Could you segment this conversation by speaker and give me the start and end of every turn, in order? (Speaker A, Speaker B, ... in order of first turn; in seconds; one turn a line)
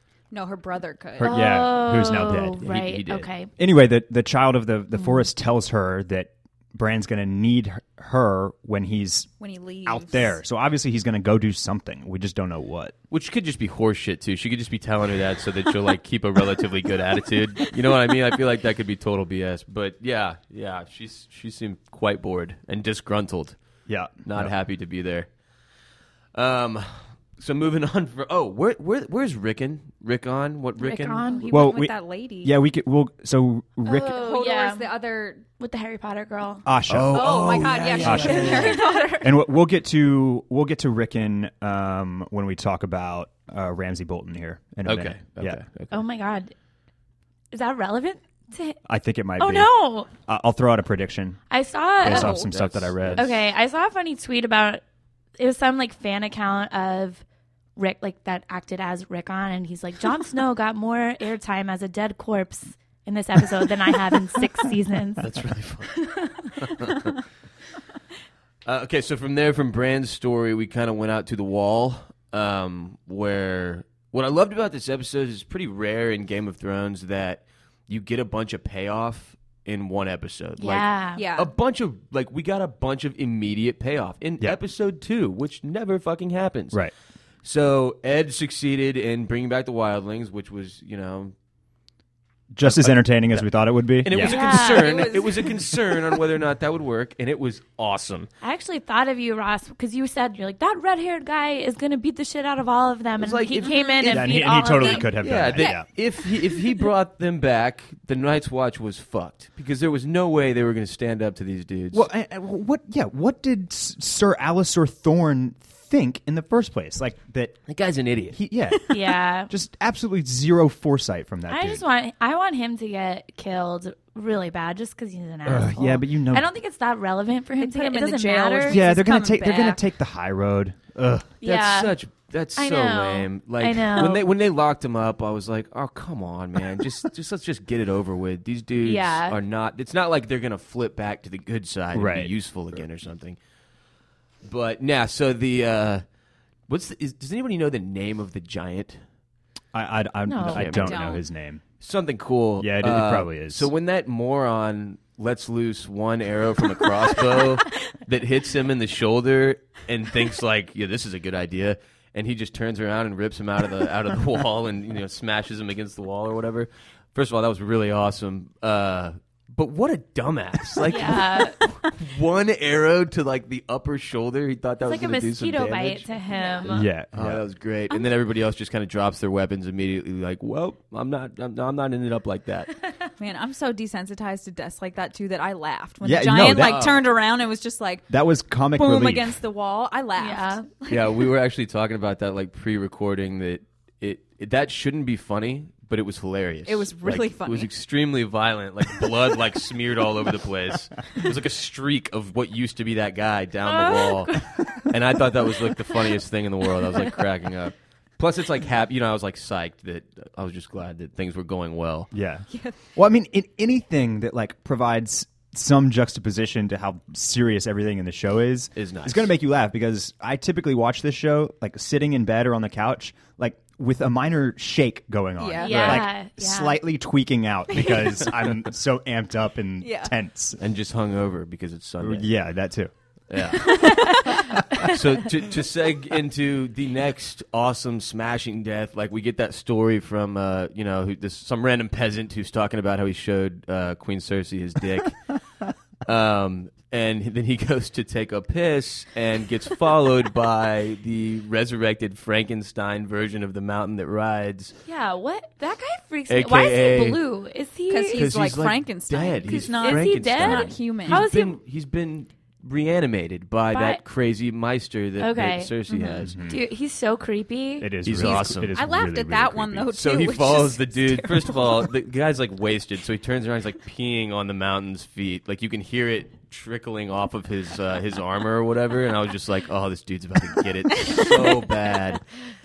Speaker A: 0.3-1.3
Speaker B: 1.2-3.5
Speaker C: 1.2-2.7
Speaker D: 2.6-3.3
Speaker C: 3.6-9.3
Speaker A: 9.4-10.4
Speaker C: 9.8-12.9
Speaker D: 13.1-23.6
Speaker C: 23.9-24.5
Speaker D: 24.2-25.3
Speaker D: 26.4-31.3
Speaker B: 30.8-31.7
Speaker A: 31.3-32.5
Speaker C: 31.5-34.2
Speaker B: 33.9-35.0
Speaker A: 34.0-35.5
Speaker B: 35.6-36.7
Speaker C: 36.6-45.6
Speaker D: 36.9-38.8
Speaker A: 37.1-39.3
Speaker B: 37.9-39.2
Speaker D: 44.9-46.0
Speaker B: 45.9-46.5
Speaker B: 47.5-48.8
Speaker C: 48.9-51.4
Speaker B: 49.4-50.1
Speaker B: 51.5-52.4
Speaker C: 52.0-53.3
Speaker A: 52.0-52.5
Speaker D: 52.3-53.4
Speaker B: 53.2-54.8
Speaker B: 55.4-57.2
Speaker B: 57.8-65.3
Speaker D: 65.2-67.2
Speaker B: 65.9-66.5
Speaker D: 68.7-86.8
Speaker B: 80.6-81.2
Speaker A: 81.2-81.5
Speaker D: 87.4-91.3
Speaker C: 92.5-94.4
Speaker D: 92.6-93.5
Speaker D: 94.0-98.3
Speaker B: 94.2-95.2
Speaker A: 94.2-95.6
Speaker B: 98.4-105.1
Speaker D: 103.2-104.2
Speaker C: 104.0-105.9
Speaker A: 104.7-106.8
Speaker D: 105.2-112.1
Speaker C: 111.9-117.6
Speaker D: 117.7-118.4
Speaker C: 118.3-119.0
Speaker B: 118.9-119.5
Speaker C: 119.5-121.8
Speaker B: 121.5-129.3
Speaker C: 125.5-126.5
Speaker A: 127.6-129.8
Speaker C: 128.7-131.3
Speaker B: 131.4-131.9
Speaker D: 131.4-143.4
Speaker B: 132.6-134.2
Speaker B: 138.8-139.4
Speaker C: 141.9-142.3
Speaker D: 144.4-146.0
Speaker D: 146.7-149.0
Speaker C: 149.7-151.6
Speaker B: 150.3-151.0
Speaker D: 150.5-151.0
Speaker A: 150.7-151.2
Speaker D: 151.8-176.1
Speaker C: 152.6-153.7
Speaker B: 170.8-171.6
Speaker B: 174.8-176.9
Speaker A: 176.3-176.6
Speaker D: 176.7-182.8
Speaker C: 176.7-177.4
Speaker A: 183.2-188.1
Speaker C: 186.0-186.9
Speaker D: 186.4-187.1
Speaker C: 188.1-189.4
Speaker A: 188.7-191.3
Speaker B: 190.2-190.7
Speaker D: 190.9-212.1
Speaker A: 196.7-197.7
Speaker B: 203.7-204.7
Speaker C: 212.1-230.6
Speaker D: 218.8-219.3
Speaker A: 225.4-226.1
Speaker B: 225.6-226.8
Speaker A: 227.7-228.2
Speaker A: 229.8-230.1
Speaker D: 230.6-232.3
Speaker C: 232.0-232.9
Speaker D: 233.3-245.2
Speaker A: 233.6-234.4
Speaker B: 233.8-234.3
Speaker D: 246.0-254.8
Speaker B: 254.9-258.3
Speaker D: 256.3-257.2
Speaker A: 257.9-261.2
Speaker D: 258.1-266.4
Speaker B: 259.5-261.6
Speaker B: 263.7-264.0
Speaker B: 265.2-267.9
Speaker C: 266.2-266.6
Speaker C: 267.8-269.9
Speaker D: 268.1-268.8
Speaker A: 268.2-271.8
Speaker D: 269.9-282.3
Speaker A: 281.0-281.5